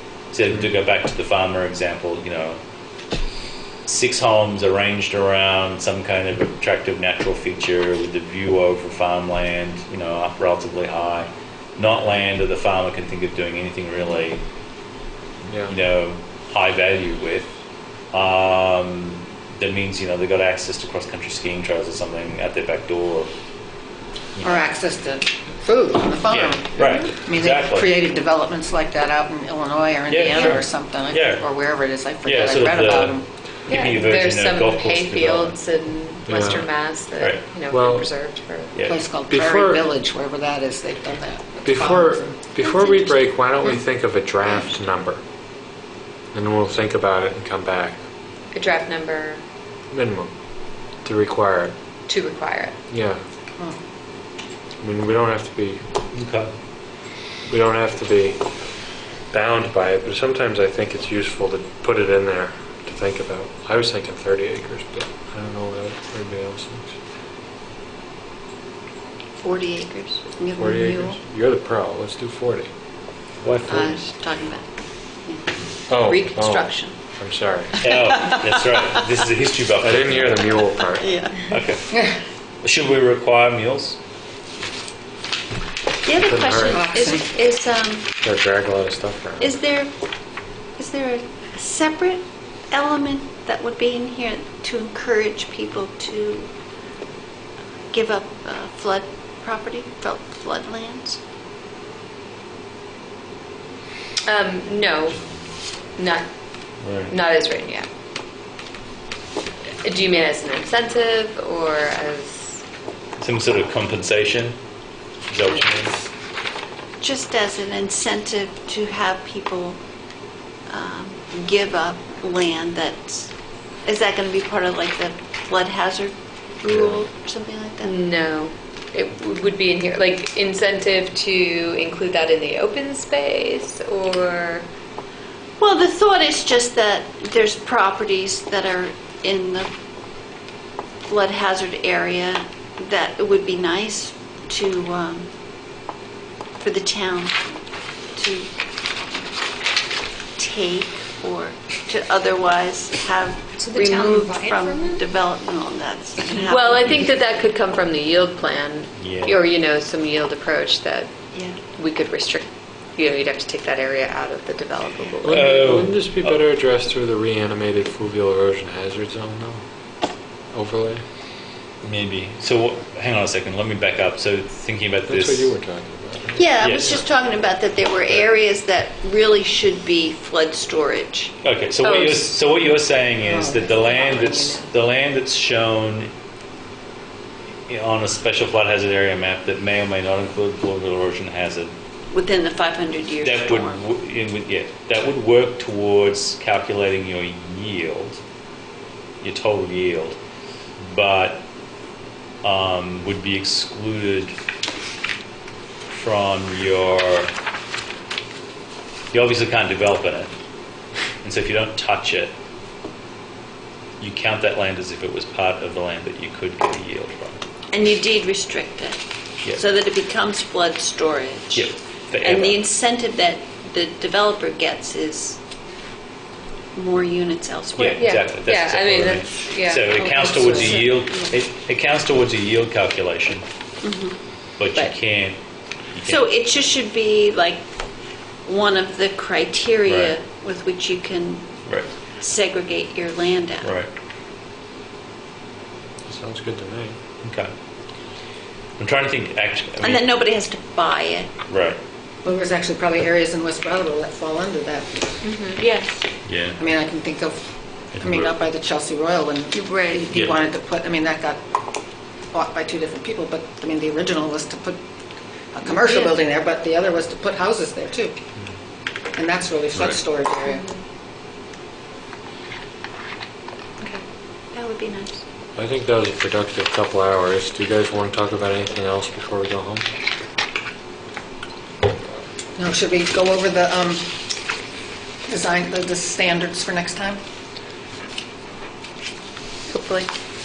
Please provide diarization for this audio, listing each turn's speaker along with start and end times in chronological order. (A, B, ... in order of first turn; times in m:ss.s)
0:00.3-0:02.6 A
0:03.8-0:14.4 A
0:15.5-0:15.7 B
0:15.7-0:17.5 A
0:18.1-0:23.3 A
0:24.4-0:24.6 A
0:24.4-0:33.3 C
0:26.3-0:27.9 A
0:30.1-0:31.5 A
0:30.2-0:30.5 D
0:32.2-0:35.6 A
0:33.7-0:38.7 D
0:36.2-0:36.7 B
0:37.2-0:37.4 A
0:37.7-0:38.1 B
0:38.7-0:39.0 A
0:38.8-0:42.3 C
0:39.3-0:39.8 B
0:41.6-0:45.2 B
0:46.3-0:48.0 B
0:48.5-0:49.4 D
0:49.9-0:50.3 B
0:51.0-0:51.7 B
0:52.1-0:52.8 D
0:52.9-0:53.2 B
0:54.8-0:55.8 B
0:56.1-0:56.5 A
0:57.4-0:58.4 B
0:59.3-1:06.9 B
1:09.4-1:11.2 E
1:10.5-1:12.7 B
1:13.4-1:14.0 A
1:13.7-1:14.7 E
1:15.2-1:17.0 E
1:15.9-1:17.9 B
1:17.8-1:20.5 A
1:17.8-1:19.0 E
1:19.8-1:21.1 B
1:20.9-1:21.5 E
1:21.5-1:21.9 A
1:21.9-1:22.2 C
1:22.6-1:24.0 A
1:26.0-1:28.1 E
1:26.2-1:27.0 B
1:26.6-1:27.3 C
1:28.2-1:29.6 B
1:29.4-1:29.9 E
1:30.8-1:36.5 E
1:37.9-1:41.2 E
1:44.2-1:45.2 D
1:46.0-1:46.3 D
1:46.8-1:47.1 A
1:47.1-1:47.9 D
1:49.8-1:52.6 D
1:53.2-1:54.6 A
1:55.3-1:56.0 A
1:57.0-1:59.8 E
2:00.7-2:03.3 E
2:03.8-2:07.9 E
2:07.8-2:14.6 D
2:15.6-2:19.7 E
2:21.1-2:25.3 E
2:26.6-2:27.4 E
2:28.2-2:28.5 E
2:30.4-2:37.0 E
2:33.8-2:34.5 D
2:36.5-2:41.1 D
2:39.0-2:39.4 A
2:41.3-2:41.6 E
2:41.7-2:45.8 D
2:45.2-2:49.6 B
2:45.3-2:46.3 A
2:50.5-2:51.0 B
2:51.8-2:55.5 A
2:55.1-2:57.0 B
2:56.4-3:01.3 E
2:56.6-2:57.0 A
3:01.4-3:06.1 A
3:01.8-3:02.3 D
3:03.2-3:04.6 C
3:07.7-3:11.7 A
3:12.1-3:13.8 E
3:13.2-3:18.2 A
3:19.2-3:20.2 A
3:20.8-3:21.4 A
3:22.4-3:24.4 A
3:25.9-3:27.3 A
3:29.1-3:30.3 A
3:31.2-3:32.3 A
3:34.0-3:37.4 A
3:37.7-3:39.0 E
3:39.6-3:41.7 E
3:41.5-3:42.6 A
3:42.2-3:45.4 E
3:46.7-3:48.0 E
3:47.8-3:53.4 A
3:47.9-3:51.0 D
3:53.8-3:54.2 E
3:54.6-3:55.4 A
3:55.9-3:56.3 A
3:56.0-3:57.6 E
3:58.4-4:01.5 E
3:59.8-4:00.1 A
4:01.6-4:01.9 A
4:02.2-4:03.7 E
4:03.6-4:03.9 A
4:06.0-4:07.0 B
4:07.2-4:07.5 A
4:08.8-4:10.0 A
4:09.8-4:11.3 E
4:11.5-4:11.8 A
4:12.2-4:15.2 C
4:15.2-4:16.0 D
4:16.2-4:16.6 A
4:16.6-4:21.4 C
4:17.9-4:18.3 A
4:19.5-4:20.1 D
4:22.3-4:24.8 C
4:25.5-4:28.2 C
4:25.6-4:26.1 D
4:29.1-4:30.6 C
4:29.7-4:30.0 A
4:30.4-4:30.8 D
4:34.5-4:35.2 E
4:35.6-4:39.8 B
4:42.6-4:44.0 C
4:45.2-4:47.2 C
4:49.7-4:50.1 D